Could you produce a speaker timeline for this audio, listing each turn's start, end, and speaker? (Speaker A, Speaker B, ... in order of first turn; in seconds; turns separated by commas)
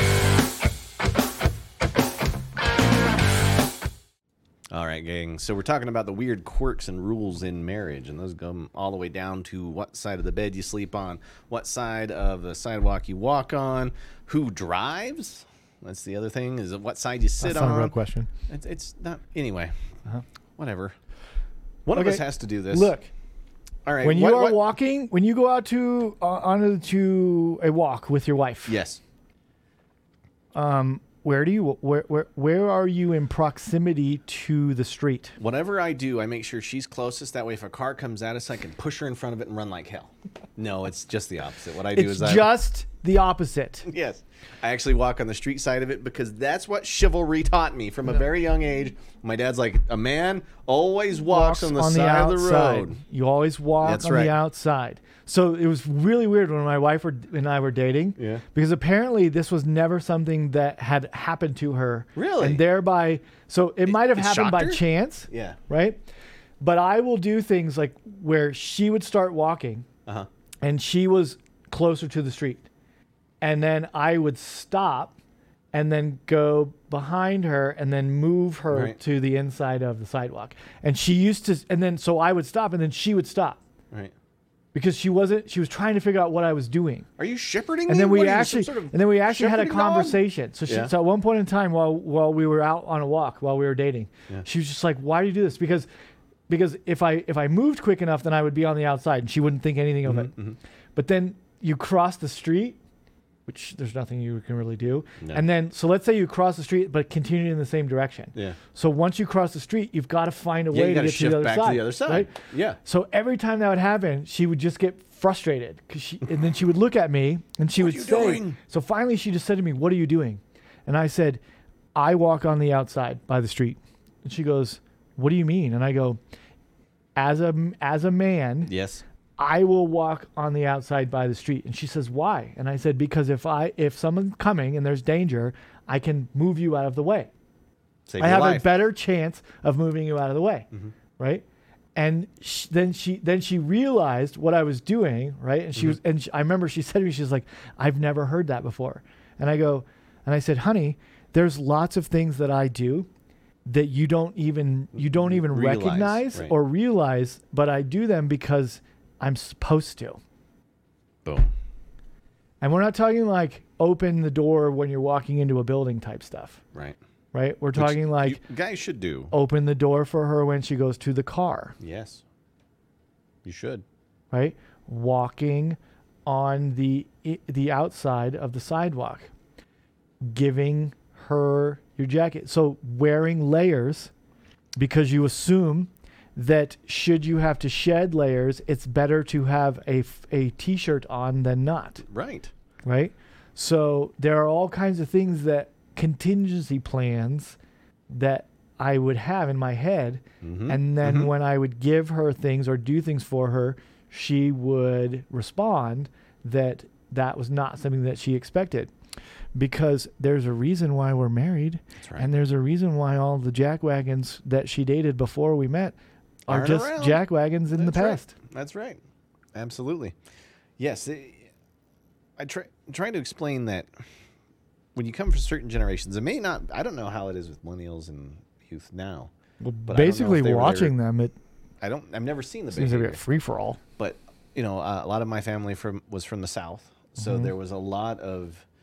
Speaker A: 4.7-17.9, Speaker B: 17.4-18.3, Speaker A: 18.5-19.7, Speaker A: 20.6-20.9, Speaker A: 21.9-22.9, Speaker B: 21.9-23.1, Speaker A: 23.9-24.6, Speaker B: 24.0-28.8, Speaker A: 28.6-29.0, Speaker B: 30.5-35.4, Speaker A: 35.4-42.5, Speaker B: 41.9-43.9, Speaker A: 43.9-53.0, Speaker B: 51.2-66.0, Speaker A: 53.8-54.3, Speaker A: 58.2-58.4, Speaker A: 62.1-62.6, Speaker A: 63.9-65.6, Speaker B: 66.6-69.8, Speaker B: 70.6-72.7, Speaker B: 73.4-75.1, Speaker B: 75.7-83.6, Speaker A: 78.7-79.0, Speaker B: 84.7-87.0, Speaker A: 87.2-90.9, Speaker B: 87.9-95.9, Speaker B: 96.5-100.3, Speaker A: 100.0-100.6, Speaker B: 100.9-102.8, Speaker B: 103.5-121.4, Speaker A: 105.2-105.5, Speaker A: 110.7-112.8, Speaker A: 117.8-118.6, Speaker B: 121.9-126.2, Speaker B: 127.2-128.7, Speaker A: 128.7-129.0, Speaker B: 129.4-137.3, Speaker A: 138.1-138.7, Speaker B: 138.2-141.4, Speaker B: 141.9-153.1, Speaker B: 153.7-160.2, Speaker A: 155.2-156.5, Speaker B: 162.6-166.6, Speaker B: 167.3-168.4, Speaker A: 167.7-169.3, Speaker B: 169.3-171.8, Speaker A: 171.8-172.2, Speaker A: 173.4-173.8, Speaker B: 174.3-179.3, Speaker B: 180.2-184.1, Speaker B: 184.8-192.0, Speaker A: 192.0-192.5, Speaker B: 192.8-197.6, Speaker B: 198.1-208.9, Speaker A: 200.4-201.3, Speaker B: 209.5-215.9, Speaker A: 212.0-212.3, Speaker B: 216.5-218.3, Speaker A: 216.5-219.0, Speaker A: 219.5-220.1, Speaker A: 220.8-221.5, Speaker A: 222.4-223.9, Speaker A: 224.9-229.3, Speaker B: 229.6-231.3, Speaker A: 229.9-230.9, Speaker A: 231.8-233.2, Speaker B: 232.7-233.8, Speaker A: 234.0-238.6, Speaker B: 237.2-237.5